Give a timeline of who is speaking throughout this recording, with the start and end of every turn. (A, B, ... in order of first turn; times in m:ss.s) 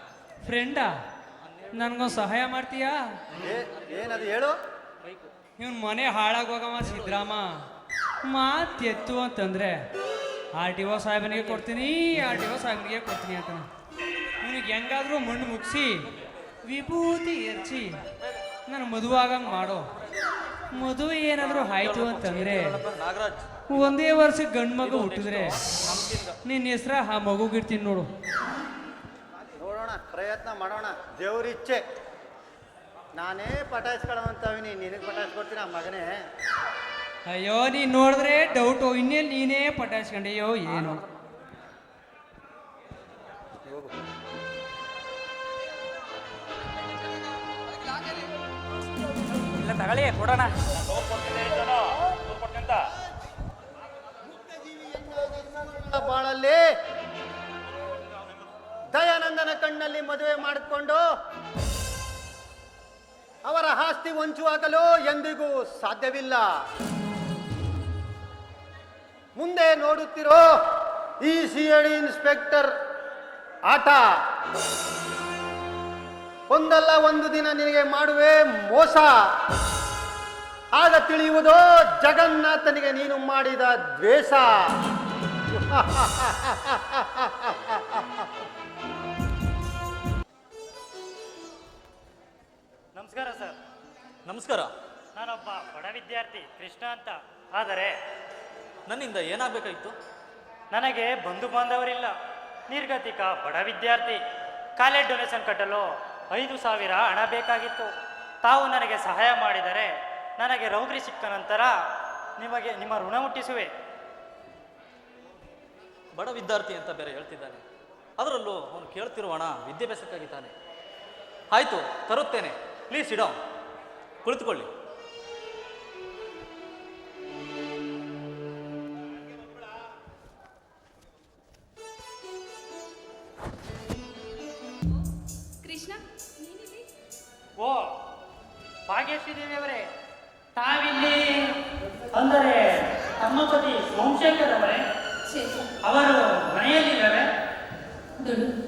0:00.4-0:01.0 A
0:01.4-0:02.1 B
0:01.7-0:03.1 A
0:03.4-0:04.6 C
0:03.8-0:04.3 B
0:05.0-0:05.3 B
0:05.6-0:07.6 A
0:08.3-0:09.9 A
0:10.5-0:13.7 A
0:14.4-0:16.1 A
0:16.6-0:18.0 A
0:18.7-0:19.9 A
0:20.7-0:22.8 A
0:21.4-0:23.5 B
0:23.7-0:25.7 A
0:24.8-0:26.4 B
0:26.4-0:28.1 A
0:29.6-0:31.8 C
0:33.2-0:36.1 C
0:37.3-0:41.0 A
0:49.6-0:50.5 A
0:54.9-0:56.7 C
0:58.9-1:01.0 C
1:03.4-1:06.4 C
1:09.4-1:10.4 C
1:11.2-1:12.7 C
1:13.7-1:14.1 C
1:16.5-1:19.1 C
1:20.7-1:24.6 C
1:25.5-1:28.2 C
1:33.0-1:33.6 D
1:34.2-1:34.7 B
1:35.2-1:38.0 D
1:38.9-1:40.0 B
1:40.7-1:42.1 D
1:42.7-1:44.2 D
1:44.8-1:47.9 D
1:48.4-1:51.8 D
1:52.4-1:53.7 D
1:56.1-1:57.6 B
1:58.2-2:00.5 B
2:01.5-2:03.4 B
2:04.2-2:04.7 B
2:15.6-2:16.8 E
2:17.6-2:17.9 D
2:18.9-2:19.9 D
2:20.6-2:21.6 D
2:22.1-2:24.8 D
2:25.3-2:25.7 E
2:25.8-2:27.3 D
2:28.2-2:28.5 E